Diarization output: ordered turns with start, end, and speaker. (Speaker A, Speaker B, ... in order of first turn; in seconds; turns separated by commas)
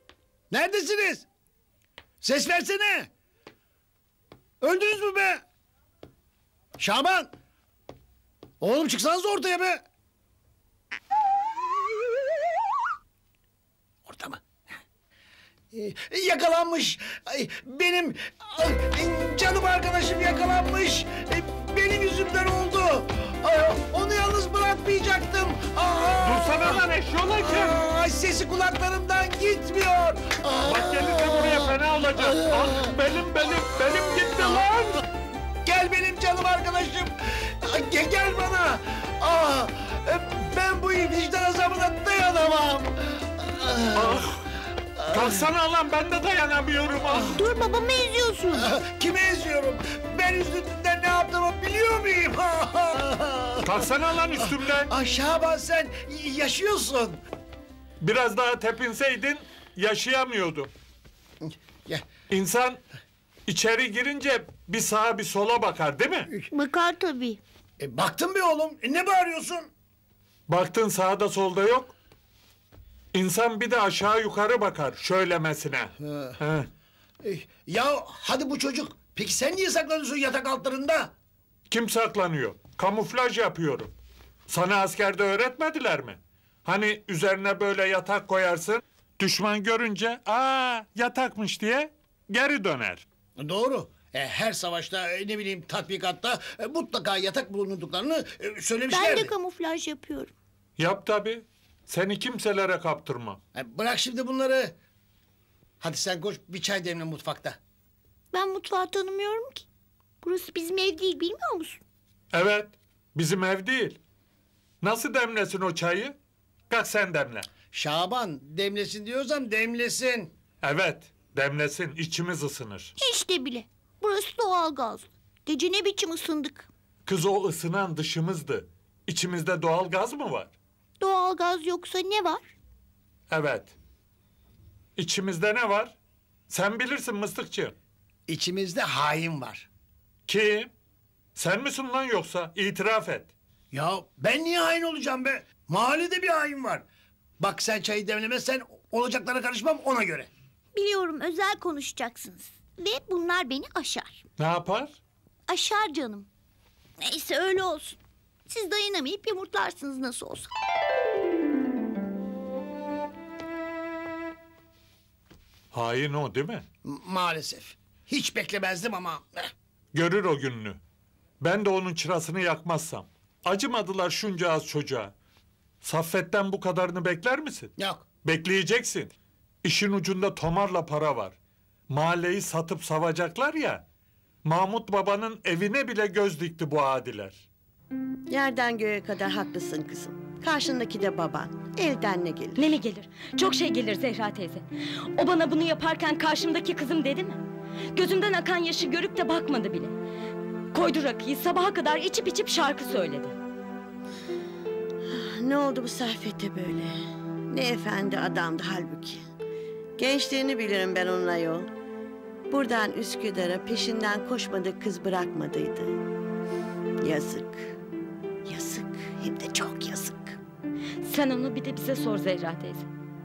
Speaker A: 0.5-1.2, Speaker A: 2.2-3.1, Speaker A: 4.6-5.4, Speaker A: 6.8-7.3, Speaker A: 8.6-9.8, Speaker A: 14.1-14.6, Speaker A: 15.7-32.9, Speaker B: 26.2-27.8, Speaker B: 30.6-35.0, Speaker A: 33.9-34.8, Speaker A: 35.6-44.4, Speaker B: 44.0-44.4, Speaker A: 45.0-45.5, Speaker B: 45.1-47.4, Speaker C: 47.3-48.7, Speaker A: 48.5-53.9, Speaker B: 53.6-54.9, Speaker A: 54.4-57.2, Speaker B: 58.0-60.7, Speaker A: 61.4-62.0, Speaker B: 62.3-62.8, Speaker B: 63.5-66.3, Speaker C: 66.5-67.4, Speaker A: 67.8-69.7, Speaker B: 70.5-72.0, Speaker B: 73.1-76.7, Speaker A: 76.0-76.4, Speaker A: 77.2-81.1, Speaker B: 81.7-83.9, Speaker B: 84.5-93.0, Speaker A: 93.4-99.3, Speaker C: 98.9-100.3, Speaker B: 100.8-103.4, Speaker A: 103.5-104.8, Speaker A: 105.8-107.6, Speaker C: 108.3-109.7, Speaker C: 110.2-111.8, Speaker B: 112.3-114.0, Speaker B: 114.8-116.2, Speaker B: 116.7-117.5, Speaker A: 117.7-120.3, Speaker B: 120.6-122.9, Speaker C: 123.0-126.7, Speaker B: 127.0-130.6, Speaker C: 131.0-132.5, Speaker B: 133.3-133.8, Speaker B: 135.0-135.9, Speaker B: 136.5-137.8, Speaker A: 138.3-139.7, Speaker B: 140.3-140.7, Speaker B: 141.4-143.3, Speaker A: 143.7-146.8, Speaker A: 147.4-150.3, Speaker C: 150.7-154.2, Speaker B: 154.4-154.9, Speaker C: 155.5-156.3, Speaker C: 157.0-158.0, Speaker C: 158.5-160.5, Speaker B: 165.7-166.6, Speaker A: 166.8-169.5, Speaker B: 169.9-170.8, Speaker B: 171.4-175.1, Speaker B: 175.8-177.7, Speaker A: 177.8-178.0, Speaker B: 178.2-179.1, Speaker B: 179.6-181.4, Speaker B: 181.9-183.8, Speaker B: 184.4-187.4, Speaker D: 188.3-192.6, Speaker E: 192.6-197.4, Speaker E: 197.9-199.9, Speaker E: 200.7-203.3, Speaker D: 205.1-207.0, Speaker D: 207.5-209.2, Speaker D: 210.0-211.7, Speaker D: 212.5-215.9, Speaker D: 217.0-217.8, Speaker D: 218.5-220.4, Speaker E: 221.1-222.9